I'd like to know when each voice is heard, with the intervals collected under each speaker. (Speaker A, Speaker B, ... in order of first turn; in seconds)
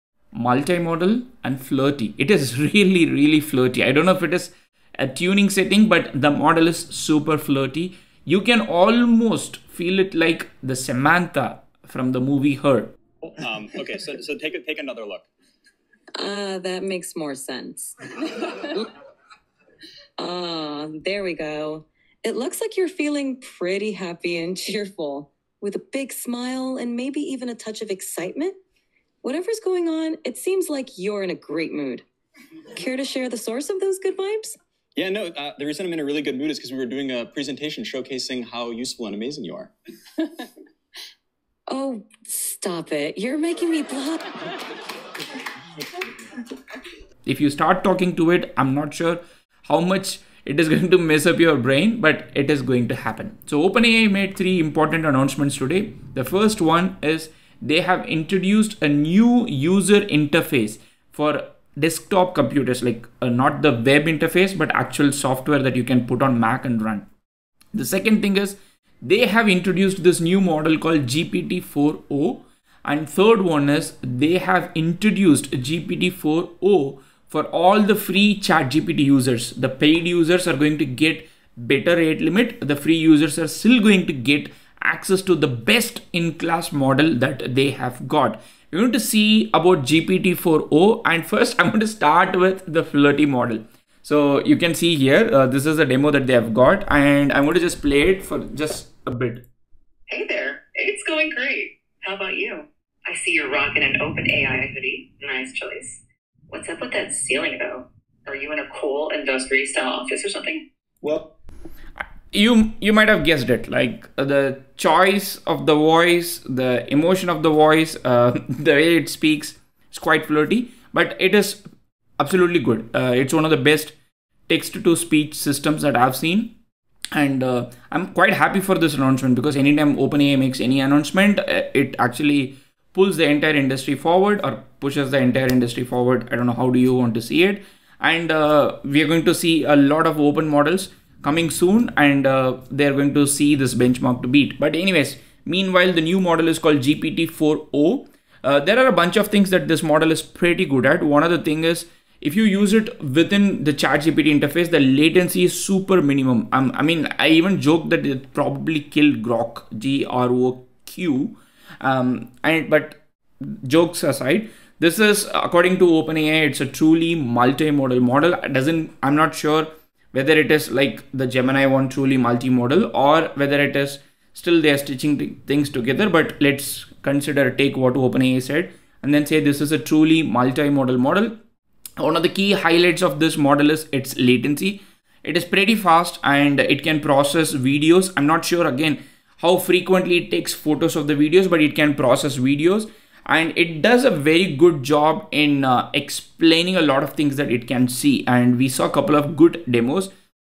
Speaker A: 0.3-12.9, 47.2-67.0, 67.7-99.4, 112.3-121.6, 122.2-123.9, 124.5-126.5, 127.1-181.3, 182.0-200.1
Speaker B: 13.3-15.3, 35.0-40.5
Speaker C: 16.2-18.9, 20.2-28.6, 29.2-32.0, 32.8-34.5, 41.7-44.4
Speaker D: 100.1-110.6